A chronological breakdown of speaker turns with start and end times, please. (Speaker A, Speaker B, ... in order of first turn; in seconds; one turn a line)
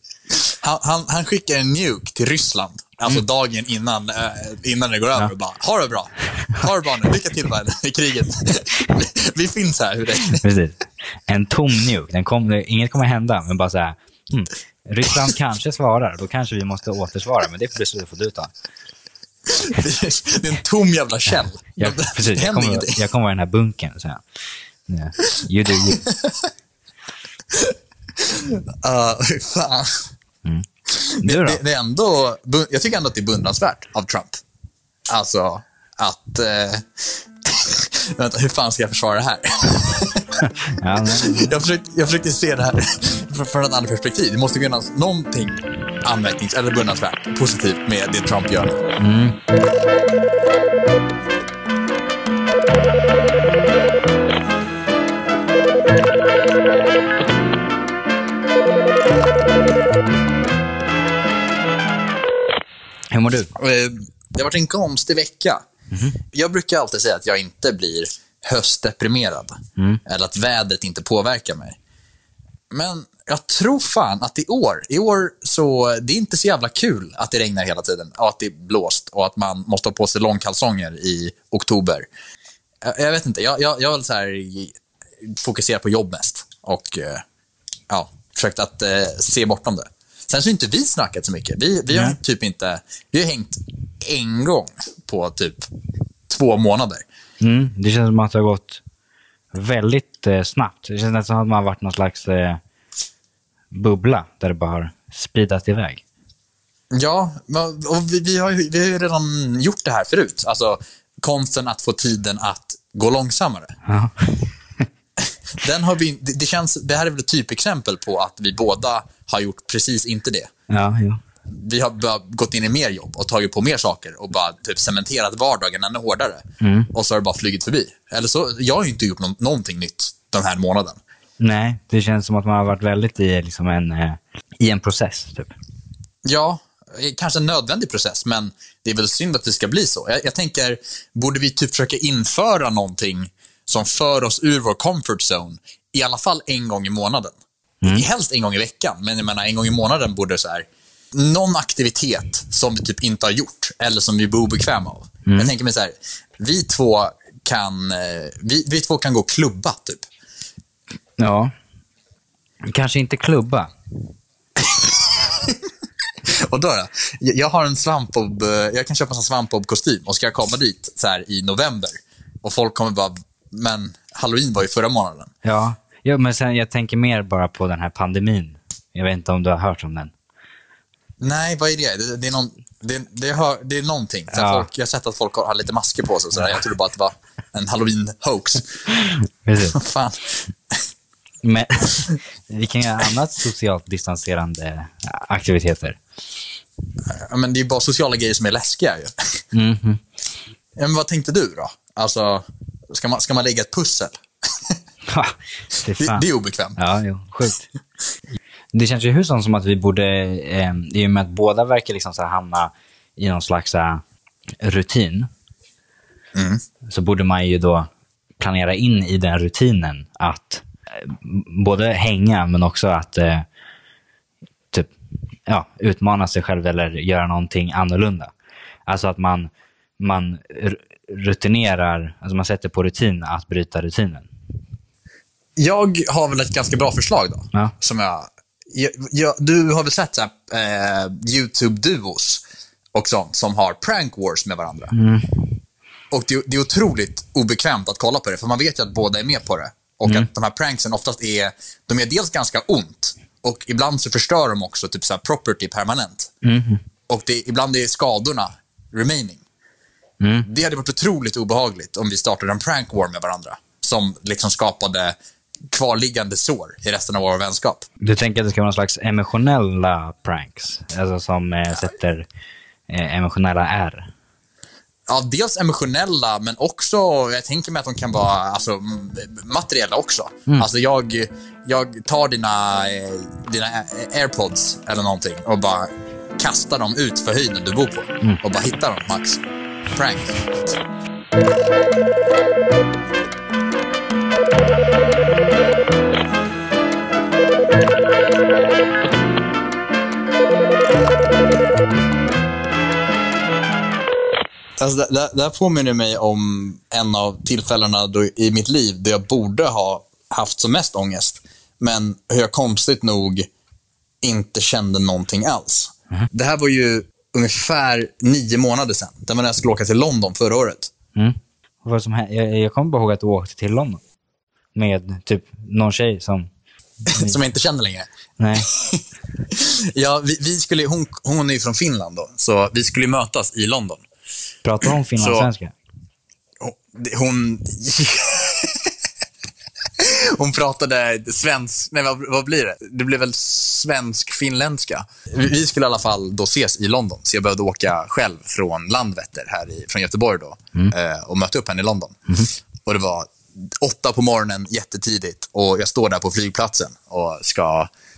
Speaker A: 0.4-10.4
Speaker B: 10.2-18.5
Speaker A: 19.5-23.0
Speaker B: 21.8-24.2
Speaker B: 24.9-26.0
Speaker A: 25.8-26.5
Speaker A: 27.5-30.1
Speaker A: 30.9-34.4
Speaker B: 31.2-31.6
Speaker A: 35.1-48.8
Speaker B: 40.4-41.5
Speaker B: 49.0-49.4
Speaker B: 63.1-63.5
Speaker A: 63.5-65.7
Speaker B: 65.9-66.2
Speaker A: 66.3-71.8
Speaker A: 72.7-82.1
Speaker A: 82.8-87.2
Speaker A: 87.9-95.7
Speaker B: 91.9-92.2
Speaker A: 96.3-97.0
Speaker B: 97.4-98.8
Speaker B: 99.5-102.6
Speaker B: 103.7-106.0
Speaker A: 106.9-113.8
Speaker B: 113.9-114.8
Speaker A: 115.2-120.5
Speaker B: 120.7-121.2
Speaker A: 121.5-131.0
Speaker B: 126.6-126.9
Speaker B: 131.4-135.5
Speaker A: 136.2-160.1
Speaker B: 155.2-155.5
Speaker B: 161.2-161.5
Speaker B: 162.6-163.7
Speaker A: 164.6-165.6
Speaker A: 166.2-175.3
Speaker B: 175.4-180.1
Speaker A: 181.2-188.8
Speaker B: 184.3-184.7
Speaker B: 188.9-189.8
Speaker A: 189.8-190.8
Speaker B: 191.4-196.0
Speaker A: 197.1-199.4
Speaker B: 199.5-200.0
Speaker A: 200.8-204.8
Speaker B: 205.1-206.2
Speaker A: 205.9-206.8
Speaker B: 206.8-207.7
Speaker B: 208.7-214.0
Speaker B: 214.6-215.3
Speaker A: 216.3-216.6
Speaker B: 216.9-223.5
Speaker B: 225.5-228.3
Speaker B: 228.9-234.3
Speaker A: 235.6-242.4
Speaker A: 242.9-244.9
Speaker B: 244.9-245.5
Speaker A: 246.1-256.3
Speaker B: 256.4-256.8
Speaker A: 257.1-259.4
Speaker B: 260.2-260.5
Speaker A: 260.4-265.2
Speaker A: 265.7-267.9
Speaker B: 268.0-272.2
Speaker B: 272.9-274.1
Speaker A: 275.1-289.4
Speaker A: 289.9-290.8
Speaker A: 304.8-313.5
Speaker A: 314.2-320.9
Speaker B: 321.1-324.0
Speaker B: 324.8-326.5
Speaker B: 327.1-327.4
Speaker A: 327.1-328.1
Speaker B: 328.4-328.7
Speaker A: 328.6-334.0
Speaker B: 334.6-335.7
Speaker A: 335.1-335.5
Speaker A: 336.6-338.9
Speaker A: 340.0-352.2
Speaker A: 352.9-357.9